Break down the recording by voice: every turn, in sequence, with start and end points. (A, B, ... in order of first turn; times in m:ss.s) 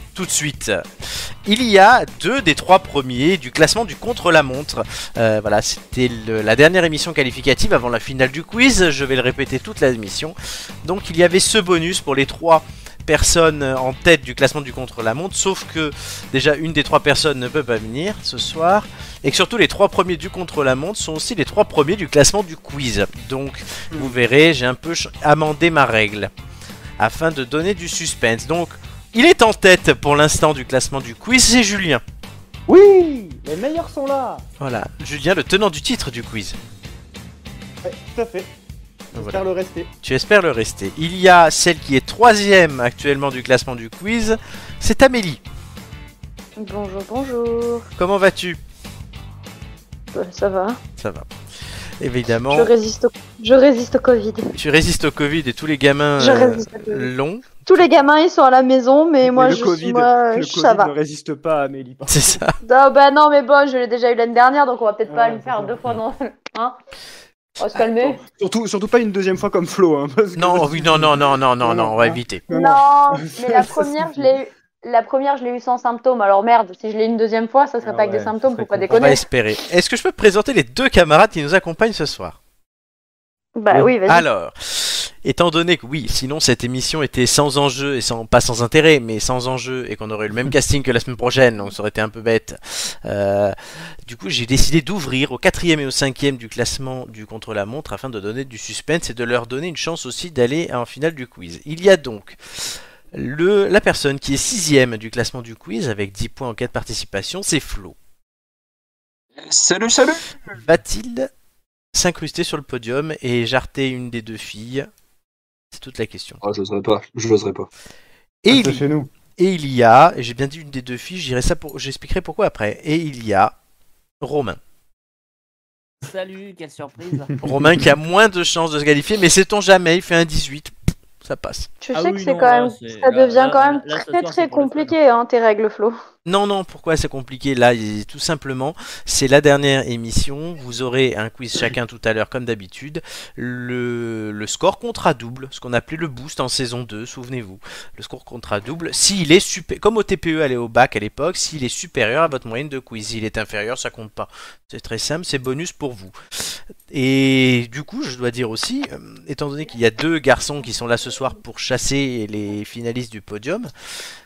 0:00.1-0:00.8 A
0:01.4-0:26.3 A
0:27.0-0:32.0 A
0:32.7-0:34.5 B
0:34.6-0:36.6 A
0:37.8-0:38.5 B
0:39.1-0:39.9 B
0:39.1-0:39.4 A
0:40.0-0:45.4 A
0:46.6-0:47.9 C
0:48.0-0:48.6 A
0:50.1-0:50.8 C
0:51.0-0:51.3 A
0:52.0-0:52.7 A
0:52.5-0:54.5 C
0:54.6-0:57.6 A
0:56.2-0:57.1 C
0:57.6-1:00.9 C
0:59.2-1:02.4 B
1:02.1-1:02.5 A
1:02.6-1:06.8 C
1:05.1-1:05.8 B
1:07.6-1:08.2 C
1:07.7-1:14.3 B
1:10.3-1:12.4 A
1:12.5-1:19.2 C
1:17.8-1:19.0 B
1:18.9-1:22.4 A
1:23.6-1:24.2 C
1:24.1-1:48.0 A
1:49.4-1:50.3 D
1:50.6-1:51.3 A
1:51.9-1:54.9 A
1:55.7-1:56.4 A
1:56.4-1:57.7 D
1:58.4-1:58.8 A
1:58.5-1:59.1 B
1:59.4-2:03.6 A
2:04.2-2:04.6 A
2:06.0-2:07.3 E
2:07.4-2:07.8 B
2:07.4-2:11.7 A
2:11.8-2:15.9 C
2:11.9-2:15.0 E
2:16.2-2:43.7 A